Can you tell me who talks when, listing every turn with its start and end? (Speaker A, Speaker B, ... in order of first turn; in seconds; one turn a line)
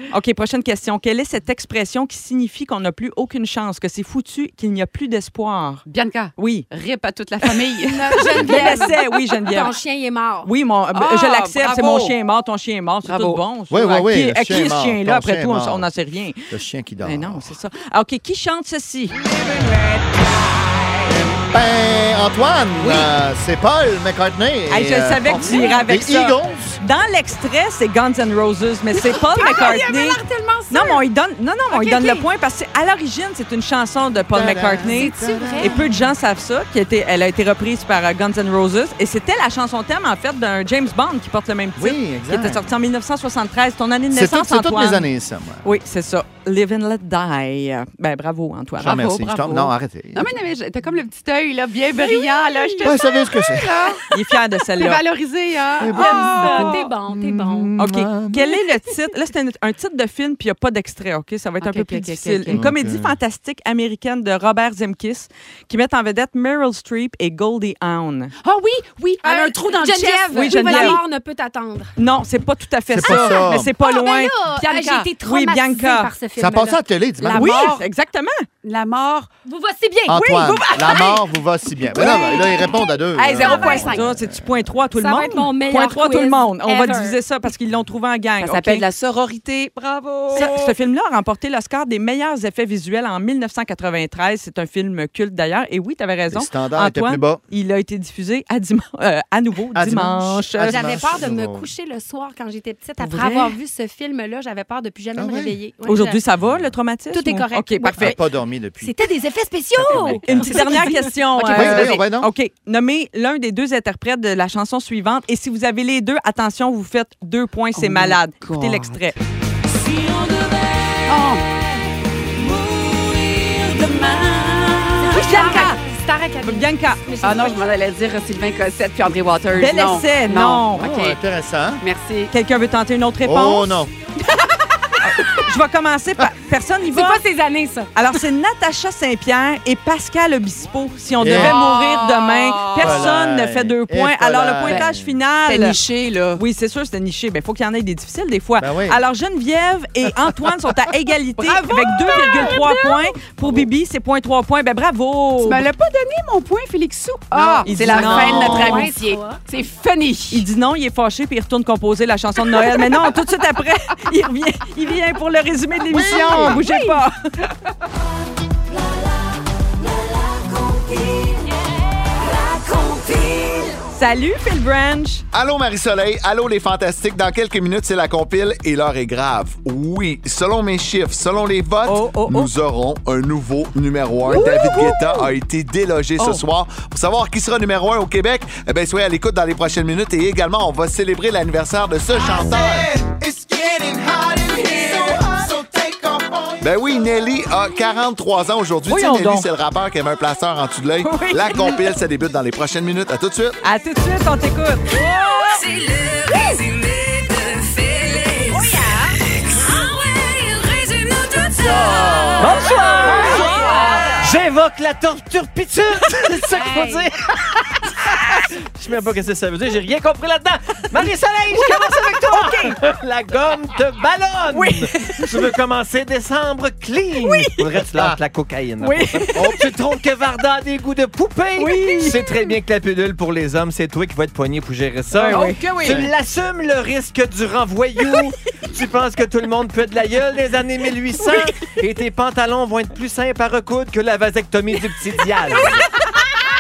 Speaker A: 0.1-6.7
Speaker B: 5.9-8.9
Speaker C: 7.9-10.5
Speaker A: 8.3-9.7
Speaker A: 10.4-16.5
Speaker B: 10.9-12.2
Speaker B: 13.0-13.4
Speaker D: 13.7-15.9
Speaker D: 16.5-17.5
Speaker A: 17.0-19.2
Speaker B: 19.2-21.1
Speaker D: 21.1-26.8
Speaker B: 22.8-23.1
Speaker A: 24.7-45.1
Speaker B: 25.4-25.8
Speaker B: 28.9-31.0
Speaker C: 31.8-32.1
Speaker D: 34.3-35.9
Speaker B: 34.8-35.8
Speaker D: 41.8-42.7
Speaker D: 44.1-45.6
Speaker A: 45.6-49.0
Speaker D: 48.8-50.3
Speaker B: 48.8-56.9
Speaker D: 52.8-53.8
Speaker A: 54.1-55.0
Speaker D: 55.8-58.6
Speaker C: 55.9-57.7
Speaker A: 57.8-68.3
Speaker B: 61.6-62.7
Speaker D: 62.5-63.2
Speaker B: 68.4-71.0
Speaker C: 69.2-71.9
Speaker A: 70.3-71.0
Speaker A: 72.0-74.3
Speaker D: 72.9-73.7
Speaker C: 73.8-76.8
Speaker B: 74.5-75.1
Speaker A: 75.2-76.1
Speaker D: 76.4-77.7
Speaker B: 77.2-77.9
Speaker A: 77.4-78.5
Speaker B: 78.6-79.3
Speaker C: 79.5-81.3
Speaker D: 80.1-84.6
Speaker C: 81.9-82.8
Speaker B: 81.9-82.6
Speaker B: 83.1-84.2
Speaker C: 83.4-83.9
Speaker A: 83.7-88.9
Speaker C: 85.0-87.2
Speaker B: 88.4-90.8
Speaker A: 90.3-101.0
Speaker D: 96.3-97.4
Speaker D: 99.8-101.7
Speaker C: 100.6-106.2
Speaker A: 103.0-103.5
Speaker D: 105.2-105.6
Speaker A: 105.8-108.2
Speaker D: 106.4-106.7
Speaker C: 107.1-108.2
Speaker D: 108.0-109.0
Speaker C: 108.8-111.2
Speaker D: 109.7-110.8
Speaker A: 109.9-119.2
Speaker B: 111.4-112.0
Speaker D: 111.5-112.3
Speaker B: 117.8-119.1
Speaker B: 119.8-121.5
Speaker B: 122.3-125.8
Speaker C: 125.0-127.6
Speaker A: 125.1-125.7
Speaker A: 126.4-127.1
Speaker B: 127.2-131.2
Speaker A: 129.5-130.8
Speaker D: 130.7-131.8
Speaker B: 131.8-132.3
Speaker A: 132.3-133.8
Speaker D: 133.2-133.9
Speaker B: 134.2-135.3
Speaker A: 135.0-137.2
Speaker C: 136.9-137.9
Speaker A: 137.9-145.8
Speaker D: 141.2-141.6
Speaker B: 141.2-143.1
Speaker D: 142.8-145.2
Speaker B: 145.4-146.4
Speaker A: 146.3-155.7
Speaker D: 148.6-149.0
Speaker B: 151.4-153.1
Speaker D: 153.4-153.7
Speaker B: 155.4-160.5
Speaker A: 157.4-158.9
Speaker C: 157.9-159.4
Speaker D: 158.3-158.8
Speaker A: 160.3-167.4
Speaker B: 162.6-163.0
Speaker D: 165.9-166.6
Speaker B: 165.9-167.1
Speaker B: 170.4-171.2
Speaker B: 172.4-173.7
Speaker A: 173.9-175.2
Speaker E: 175.3-195.7
Speaker A: 181.9-182.5
Speaker A: 184.3-185.3
Speaker A: 186.2-186.4
Speaker D: 193.2-193.7
Speaker D: 194.8-195.1
Speaker D: 195.7-196.6
Speaker E: 196.5-203.6
Speaker A: 198.9-199.5
Speaker A: 201.0-201.8
Speaker A: 203.6-205.6
Speaker F: 205.4-212.3
Speaker C: 208.5-209.2
Speaker G: 212.4-217.4
Speaker C: 212.8-214.1
Speaker A: 213.0-214.0
Speaker C: 216.5-217.1
Speaker G: 218.0-245.9
Speaker A: 221.5-222.8
Speaker A: 224.5-225.5
Speaker D: 227.9-228.2
Speaker A: 228.8-229.7
Speaker A: 231.6-232.3
Speaker A: 235.2-235.6
Speaker B: 235.2-236.0